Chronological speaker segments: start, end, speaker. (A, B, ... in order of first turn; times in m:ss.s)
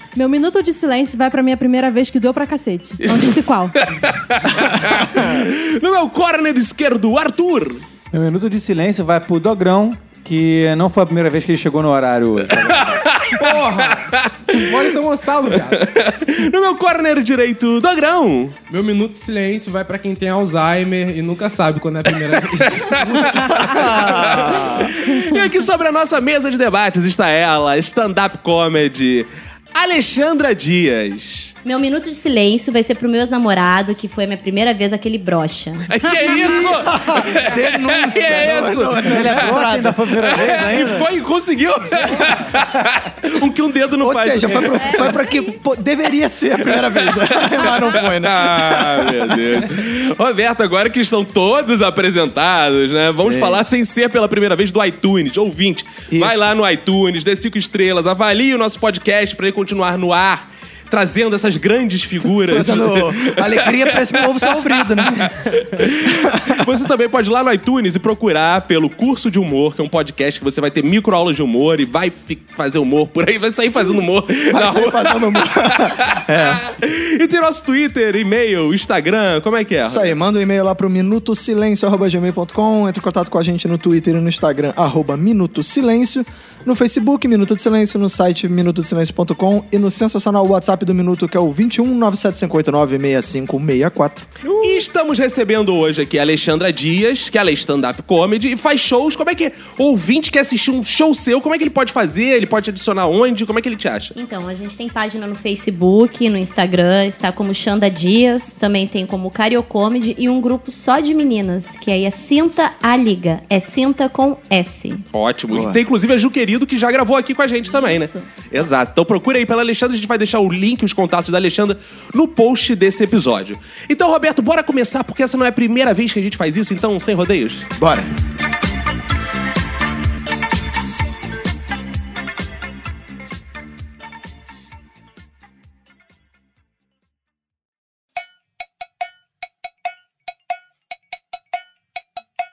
0:00.2-0:03.7 A
0:03.0-0:07.8 B
0:08.1-0:13.0 C
0:12.6-0:14.9 B
0:13.4-0:15.8 D
0:15.5-0:18.6 B
0:18.7-0:24.2 D
0:22.5-0:31.5 B
0:23.4-0:24.9 E
0:31.6-0:36.7 F
0:35.9-0:39.6 B
0:36.3-0:40.0 E
0:39.0-0:41.1 C
0:40.2-0:45.2 B
0:44.0-0:49.6 E
0:44.9-0:45.4 F
0:46.6-1:20.1 B
0:53.1-0:53.6 E
0:56.1-0:56.5 E
1:02.4-1:06.6 E
1:14.5-1:16.6 E
1:19.9-1:34.3 E
1:34.5-1:34.8 D
1:34.6-1:44.1 B
1:44.1-1:55.0 F
1:55.1-2:07.6 B
1:55.5-1:55.8 E
1:57.6-1:58.7 F
2:07.8-2:08.1 E